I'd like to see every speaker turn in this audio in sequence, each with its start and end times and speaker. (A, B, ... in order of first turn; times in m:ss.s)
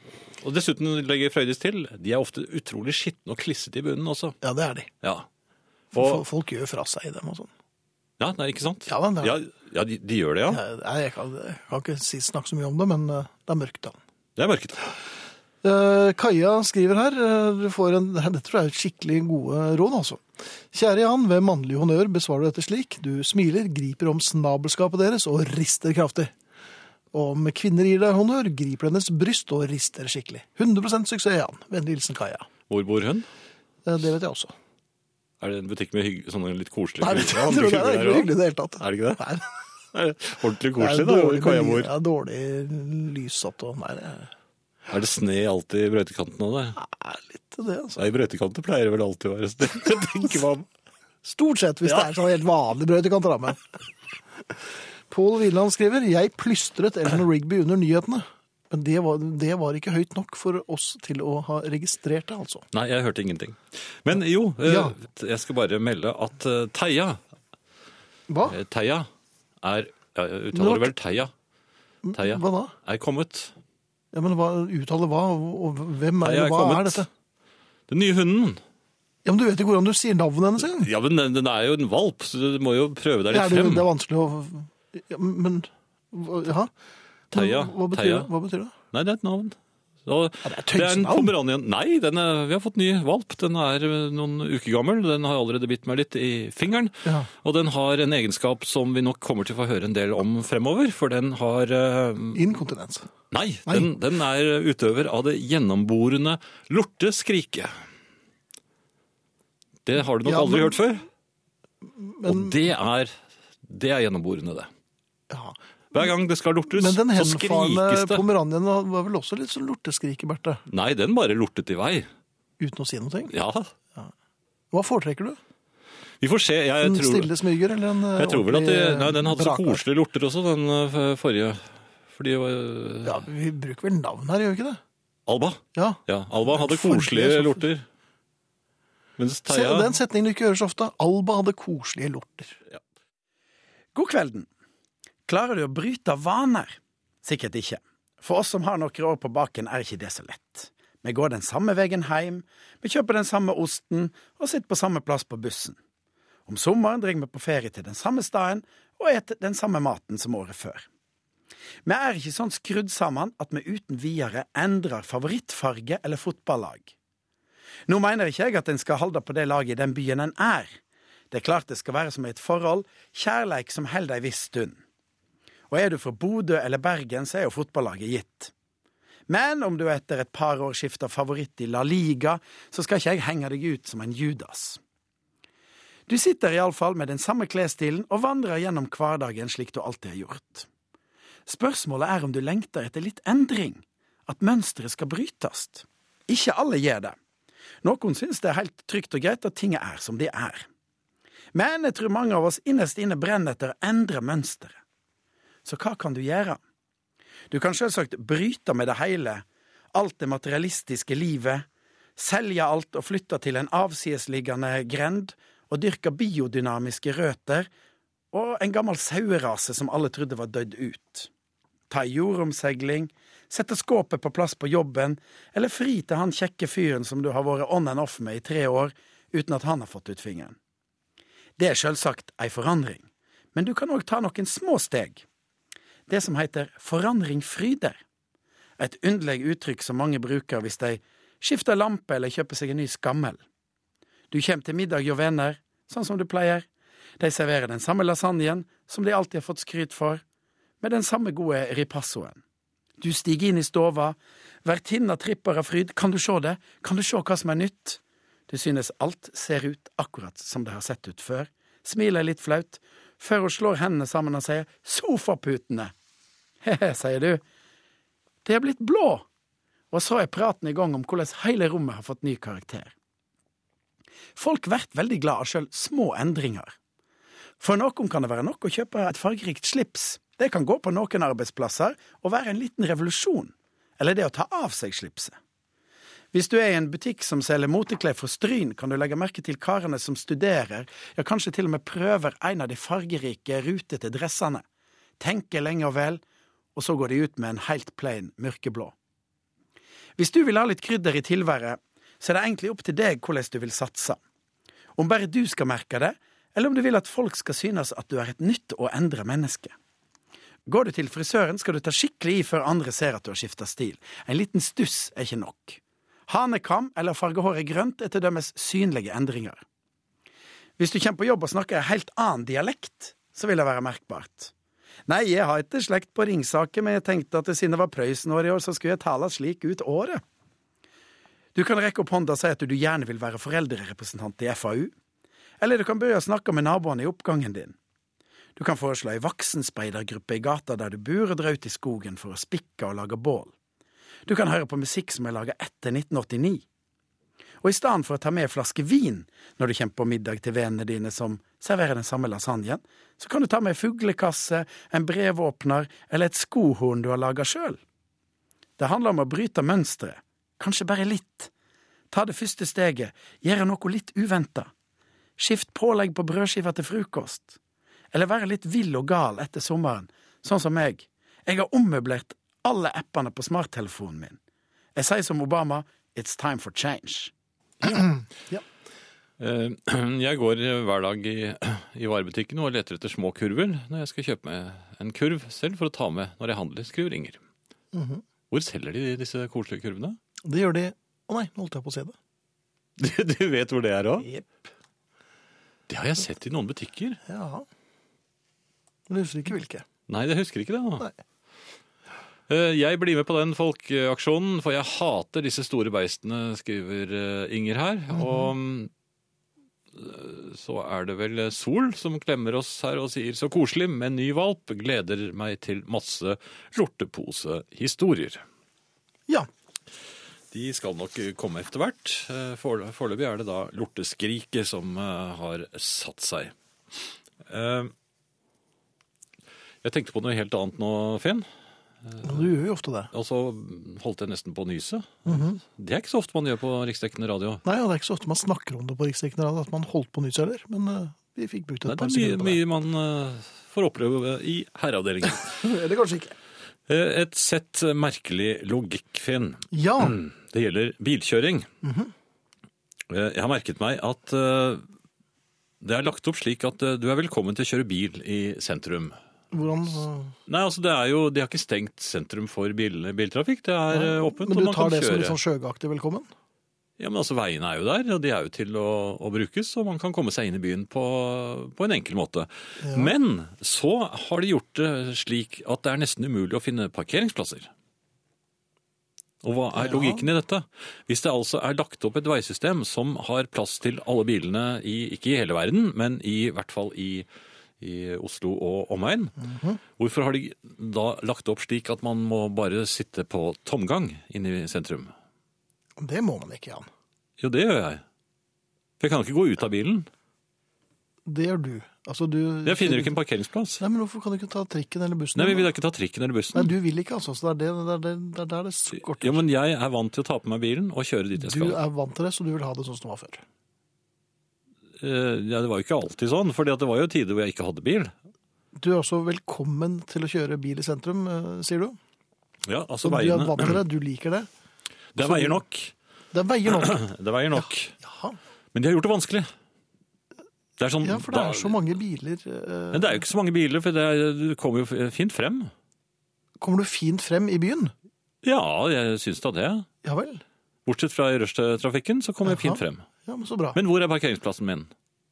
0:00.4-0:04.3 A
0:04.4-0:04.9 B
0:05.9-0:06.2 A
0:05.9-0:07.5 B
0:08.2-0:10.6 A
0:08.9-0:09.4 B
0:10.5-0:14.0 B
0:14.4-0:14.8 A
0:15.6-0:26.3 B
0:27.1-0:32.5 B
0:32.7-0:33.3 A
0:33.8-0:34.5 B
0:35.4-0:39.2 A
0:37.0-0:39.5 B
0:39.9-0:41.9 A
0:40.8-0:44.3 B
0:44.9-0:46.8 A
0:46.8-0:48.0 B
0:48.0-0:50.7 A
0:51.2-0:53.6 B
0:55.1-1:02.6 B
1:02.7-1:07.2 A
1:04.6-1:04.9 B
1:08.3-1:08.6 B
1:08.5-1:09.1 A
1:09.6-1:11.3 A
1:10.5-1:10.9 B
1:12.0-1:12.7 B
1:12.1-1:13.5 A
1:14.1-1:17.1 B
1:16.2-1:17.0 A
1:17.9-1:18.6 A
1:19.2-1:20.9 B
1:20.7-1:23.9 A
1:23.3-1:26.7 B
1:27.3-1:28.7 B
1:27.3-1:28.3 A
1:28.9-1:42.4 A
1:30.4-1:31.3 B
1:42.3-1:43.1 B
1:43.3-1:47.7 A
1:49.8-1:51.0 A
1:50.2-1:50.7 B
1:52.0-1:52.6 B
1:52.2-1:53.1 A
1:53.6-1:54.7 A
1:55.3-1:55.6 B
1:55.9-1:58.2 A
1:56.6-2:00.6 B
2:00.7-2:02.1 A
2:02.6-2:03.3 B
2:03.3-2:03.7 A
2:04.7-2:05.4 B
2:06.2-2:07.3 A
2:06.8-2:09.8 B
2:08.1-2:13.2 A
2:13.0-2:14.8 B
2:15.3-2:17.8 A
2:15.7-2:17.6 B
2:19.2-2:19.9 A
2:19.5-2:22.6 B
2:23.9-2:24.5 C
2:25.3-2:35.8 C
2:36.5-2:40.8 C
2:41.8-2:46.9 C
2:47.9-2:50.7 C
2:51.3-2:54.8 C
2:55.7-2:58.5 C
2:59.3-3:04.8 C
3:06.1-3:10.7 C
3:11.5-3:17.1 C
3:17.8-3:20.7 C
3:21.5-3:24.8 C
3:25.6-3:26.6 C
3:27.5-3:37.7 C
3:38.3-3:41.3 C
3:41.9-3:50.6 C
3:51.6-3:55.2 C
3:56.1-3:58.0 C
3:58.8-4:03.4 C
4:04.3-4:06.6 C
4:07.2-4:10.2 C
4:10.8-4:12.4 C
4:13.0-4:25.9 C
4:26.6-4:27.4 C
4:28.4-4:29.2 C
4:29.9-4:32.9 C
4:34.4-4:36.7 C
4:37.6-4:45.4 C
4:46.3-4:54.6 C
4:55.2-4:56.2 C
4:56.7-4:58.9 C
5:00.2-5:04.2 C
5:05.0-5:09.7 C
5:10.6-5:19.6 C
5:20.8-5:24.5 C
5:25.1-5:30.2 C
5:31.5-5:34.9 C
5:35.6-5:37.8 C
5:38.6-5:43.5 C
5:44.2-5:46.6 C
5:47.6-5:57.8 C
5:58.8-6:01.5 C
6:02.1-6:04.7 C
6:05.4-6:07.6 C
6:08.1-6:14.4 C
6:14.9-6:17.3 C
6:17.9-6:18.6 B
6:19.4-6:27.4 A
6:27.9-6:28.2 B
6:28.5-6:30.2 A
6:30.4-6:32.1 B
6:33.0-6:34.3 A
6:35.9-6:37.2 A
6:37.3-6:37.6 B
6:39.1-6:39.8 B
6:40.1-6:41.1 A
6:42.5-6:48.9 A
6:49.9-6:58.4 A
7:00.5-7:06.5 A
7:07.4-7:07.9 A
7:09.8-7:11.5 A
7:12.1-7:12.4 A
7:12.2-7:13.1 B
7:13.1-7:17.6 A
7:15.2-7:15.6 B
7:17.6-7:22.6 B
7:21.8-7:25.6 A
7:25.5-7:26.3 B
7:26.9-7:31.7 A
7:29.7-7:30.2 B
7:31.8-7:32.1 B
7:33.1-7:34.8 A
7:35.8-7:39.2 A
7:39.5-7:40.3 B
7:40.5-7:45.4 A
7:43.9-7:46.3 B
7:47.0-7:57.7 A
7:52.8-7:53.1 B
7:59.4-8:07.2 A
7:59.8-8:00.2 B
8:07.8-8:09.3 A
8:09.4-8:09.8 B
8:09.9-8:15.1 A
8:16.0-8:16.9 B
8:17.4-8:18.0 A
8:19.0-8:20.1 A
8:21.2-8:23.1 B
8:22.6-8:23.8 A
8:23.8-8:25.7 B
8:25.4-8:26.7 A
8:26.5-8:29.4 B
8:29.1-8:31.8 A
8:31.4-8:33.4 B
8:35.0-8:38.1 A
8:38.8-8:42.0 B
8:42.6-8:43.8 A
8:43.0-8:44.5 B
8:45.1-8:45.9 A
8:45.2-8:45.6 B
8:46.3-8:47.0 B
8:46.7-8:47.9 A
8:47.6-8:48.4 B
8:48.7-8:49.5 A
8:50.8-8:51.8 A
8:51.0-8:53.2 B
8:52.9-8:55.7 A
8:56.6-8:57.9 B
8:58.4-8:59.9 A
9:00.0-9:00.4 B
9:00.8-9:03.0 A
9:02.4-9:03.8 B
9:03.7-9:04.9 A